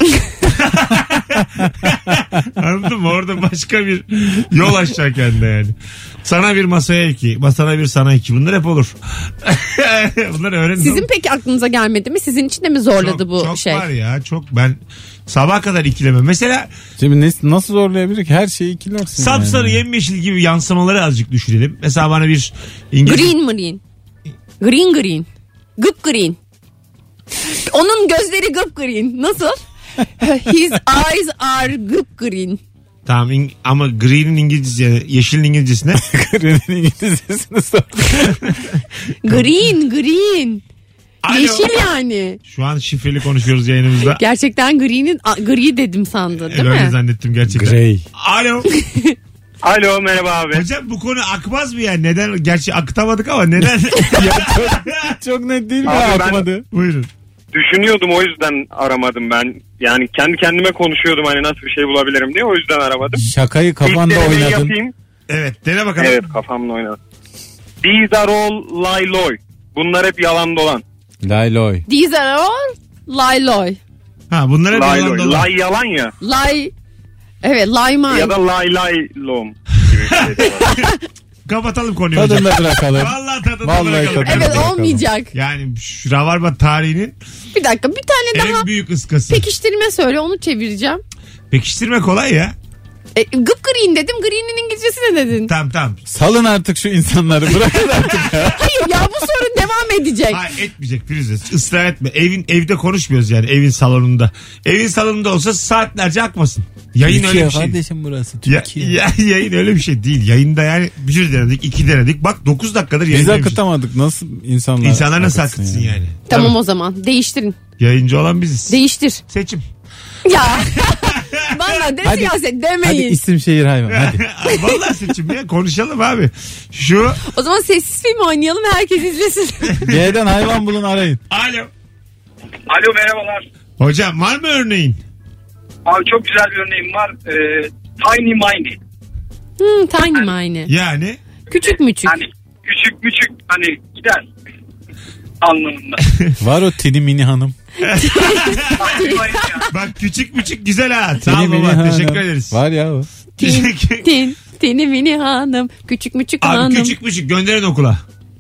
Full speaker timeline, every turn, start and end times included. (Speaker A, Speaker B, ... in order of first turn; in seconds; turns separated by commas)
Speaker A: 0.4-11.1, Speaker B: 10.8-13.9, Speaker A: 13.0-16.7, Speaker C: 17.0-19.8, Speaker A: 19.1-23.3, Speaker B: 23.1-23.8, Speaker B: 24.6-25.3, Speaker B: 25.8-26.4, Speaker B: 27.5-29.6, Speaker B: 30.2-32.6, Speaker A: 33.1-36.0, Speaker C: 35.9-38.5, Speaker A: 38.2-38.7, Speaker B: 39.2-40.6, Speaker A: 41.2-41.9, Speaker B: 41.3-42.4, Speaker A: 42.5-44.2, Speaker B: 44.1-47.0, Speaker A: 46.5-48.7, Speaker C: 47.5-48.0, Speaker B: 48.7-49.1, Speaker D: 49.6-50.6, Speaker A: 50.5-55.1, Speaker C: 53.6-56.6, Speaker D: 55.9-56.4, Speaker A: 56.7-57.1, Speaker D: 57.5-63.2, Speaker C: 63.1-64.8, Speaker D: 63.8-64.9, Speaker A: 65.3-66.2, Speaker D: 66.0-67.0, Speaker D: 67.8-70.8, Speaker C: 71.2-71.8, Speaker B: 71.9-73.8, Speaker A: 74.3-75.5, Speaker D: 74.7-76.1, Speaker B: 76.2-76.7, Speaker B: 77.4-78.3, Speaker D: 78.1-80.8, Speaker A: 79.9-80.9, Speaker B: 80.7-81.0, Speaker A: 81.5-84.7, Speaker C: 82.1-85.0, Speaker B: 84.2-85.3, Speaker A: 85.3-87.1, Speaker B: 87.5-88.7, Speaker A: 88.3-89.4, Speaker B: 89.3-91.0, Speaker A: 91.5-92.5, Speaker B: 93.2-95.5, Speaker A: 95.5-96.0, Speaker C: 96.1-98.6, Speaker A: 98.0-98.5, Speaker B: 98.5-100.4, Speaker A: 100.3-107.8, Speaker C: 107.0-109.0, Speaker A: 108.4-113.6, Speaker C: 113.1-116.0, Speaker A: 114.8-116.6, Speaker B: 116.3-117.6, Speaker A: 117.8-118.8, Speaker B: 118.7-119.2, Speaker A: 119.3-119.6, Speaker B: 120.2-123.2, Speaker A: 120.6-121.6, Speaker C: 122.0-124.2, Speaker A: 123.9-127.2, Speaker B: 124.5-124.8, Speaker B: 127.2-129.8, Speaker A: 129.7-130.1, Speaker C: 129.8-131.2, Speaker A: 131.3-131.7, Speaker E: 132.7-133.4, Speaker A: 133.8-135.0, Speaker E: 135.9-138.8, Speaker B: 139.6-140.7, Speaker A: 140.7-141.2, Speaker E: 141.5-144.3, Speaker B: 141.5-142.2, Speaker E: 145.4-146.0, Speaker C: 146.4-147.6, Speaker A: 147.8-149.0, Speaker B: 147.8-149.7, Speaker E: 148.8-149.7, Speaker A: 149.7-152.6, Speaker C: 151.2-153.1, Speaker B: 153.4-156.9, Speaker A: 153.4-154.1, Speaker A: 156.4-158.0